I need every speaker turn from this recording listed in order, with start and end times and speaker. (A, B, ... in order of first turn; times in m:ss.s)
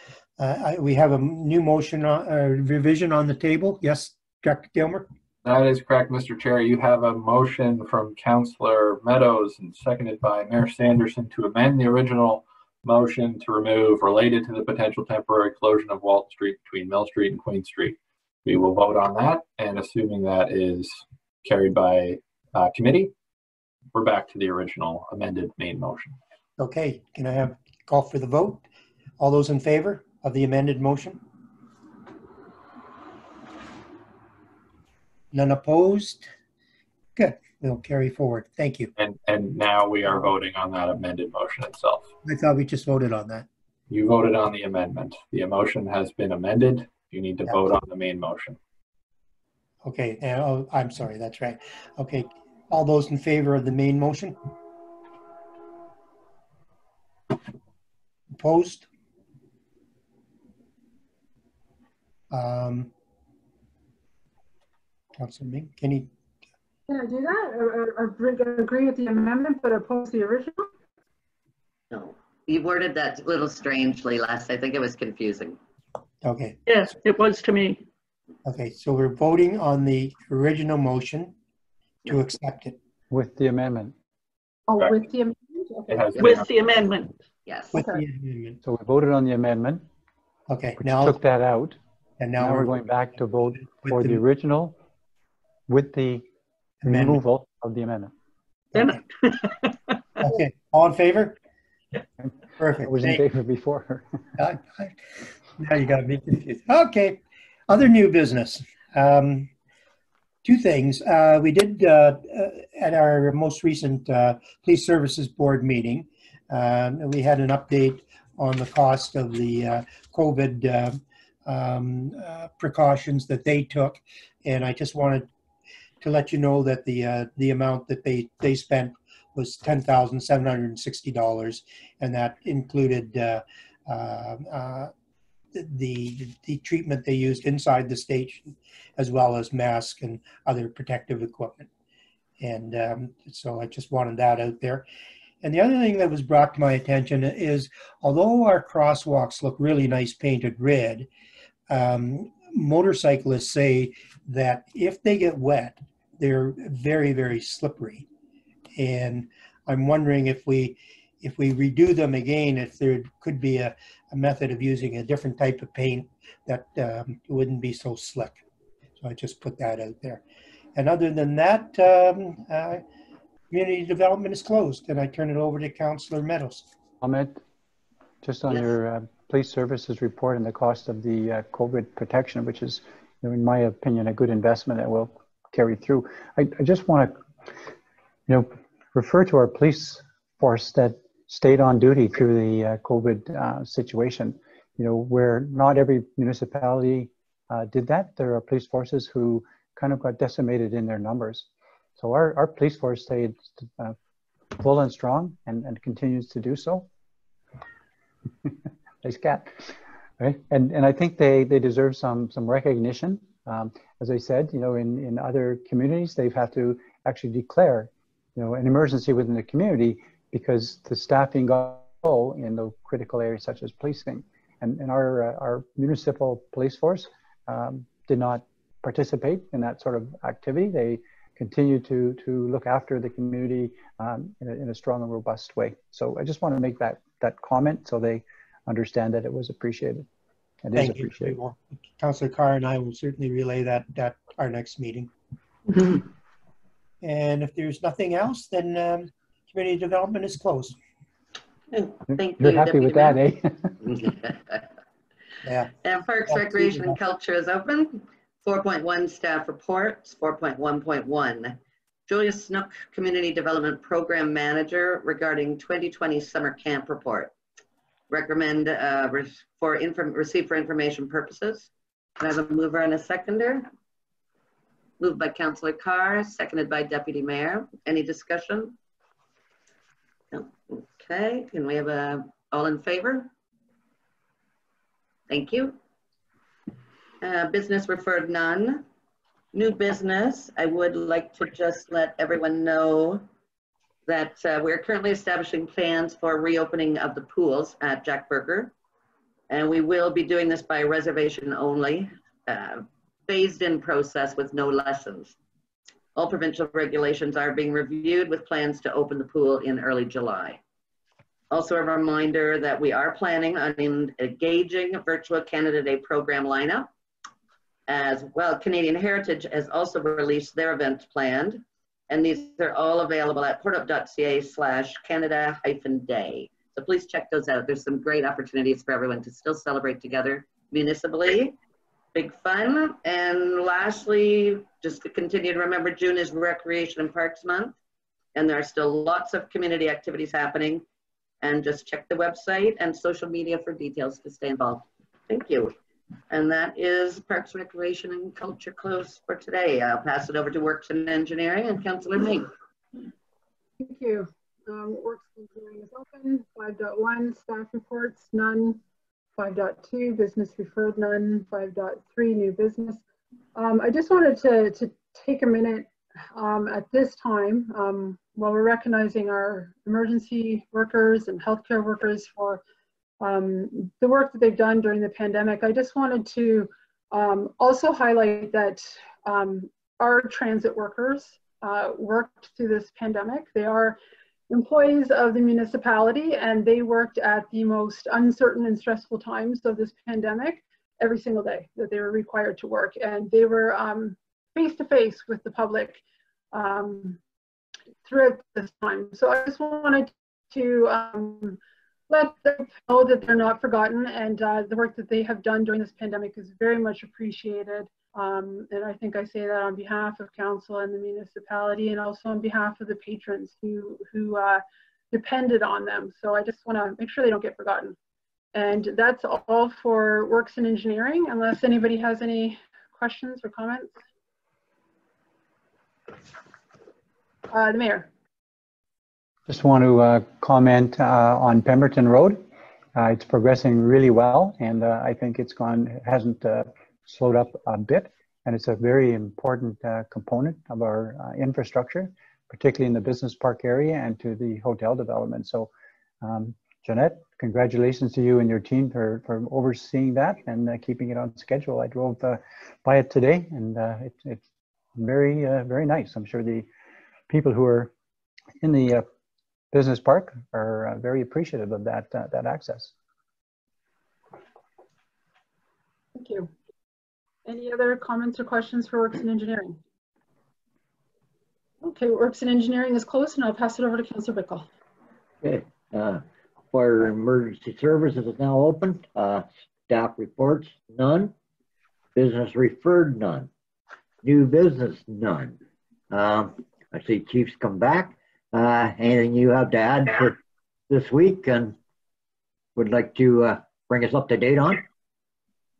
0:00.4-0:05.0 A
0:05.4-0:23.1 B
0:23.9-0:26.2 B
0:26.6-0:28.6 A
0:29.2-0:31.2 A
0:35.3-0:36.3 A
0:37.2-0:38.9 A
0:39.0-0:42.1 B
0:42.2-0:43.4 A
0:43.9-0:48.6 B
0:49.8-0:54.4 A
0:58.3-0:58.8 A
1:02.3-1:02.9 A
1:05.1-1:06.1 A
1:06.9-1:10.7 C
1:11.9-1:15.6 D
1:16.2-1:16.6 A
1:16.7-1:17.8 E
1:18.4-1:21.3 A
1:22.0-1:22.7 A
1:23.1-1:23.9 F
1:24.7-1:26.4 C
1:24.8-1:25.0 B
1:25.9-1:26.5 B
1:26.2-1:27.1 E
1:27.5-1:27.8 D
1:27.7-1:28.6 A
1:28.6-1:29.8 F
1:30.5-1:31.2 A
1:30.8-1:31.8 F
1:32.2-1:32.8 A
1:32.4-1:34.8 F
1:33.7-1:34.2 A
1:35.7-1:36.2 F
1:36.8-1:37.2 A
1:36.8-1:38.1 F
1:38.8-1:39.7 E
1:40.2-1:41.4 A
1:42.2-1:44.1 F
1:42.6-1:43.2 A
1:44.4-1:45.0 A
1:45.6-1:49.5 A
1:50.4-2:05.3 A
2:06.0-2:14.9 A
2:15.5-2:21.7 A
2:22.4-2:24.8 A
2:25.4-2:31.1 A
2:31.7-2:38.0 A
2:38.8-2:48.4 A
2:49.0-2:50.2 A
2:50.7-2:52.8 A
2:53.5-2:56.6 A
2:57.0-2:57.4 F
2:58.2-3:07.1 F
3:08.3-3:21.5 F
3:22.0-3:23.9 F
3:24.6-3:26.9 F
3:29.0-3:29.6 F
3:30.2-4:00.0 F
4:00.6-4:01.4 F
4:00.8-4:05.1 A
4:07.0-4:10.8 A
4:11.7-4:13.2 D
4:12.1-4:13.8 F
4:13.8-4:14.6 D
4:15.4-4:15.7 A
4:15.8-4:21.6 D
4:16.3-4:16.9 A
4:22.1-4:27.3 D
4:28.1-4:33.7 D
4:35.0-4:38.8 D
4:40.3-4:43.3 D
4:45.3-4:45.8 D
4:47.2-4:48.8 D
4:49.5-4:53.2 D
4:54.1-4:58.7 D
4:59.5-5:05.3 D
5:06.2-5:10.6 D
5:11.5-5:16.9 D
5:17.9-5:31.6 D
5:32.1-5:37.8 D
5:38.3-5:40.8 D
5:41.4-5:45.7 D
5:46.3-5:52.5 D
5:53.8-5:58.8 C
5:59.4-6:03.0 C
6:03.5-6:12.6 C
6:13.2-6:24.0 C
6:24.5-6:36.0 C
6:36.5-6:37.2 C
6:38.0-6:41.6 C
6:42.1-6:58.0 C
6:58.5-7:04.0 C
7:07.5-7:08.1 C
7:09.5-7:12.4 F
7:12.9-7:25.7 F
7:26.2-7:34.4 F
7:35.0-7:36.7 F
7:37.3-7:37.9 F
7:38.6-7:39.0 F
7:39.7-7:42.9 F
7:46.1-7:46.5 C
7:47.4-7:49.8 C
7:51.8-7:54.6 C
7:55.4-8:01.3 G
8:02.1-8:03.5 G
8:04.2-8:05.6 G
8:06.1-8:10.4 G
8:10.9-8:11.7 G
8:12.8-8:14.8 G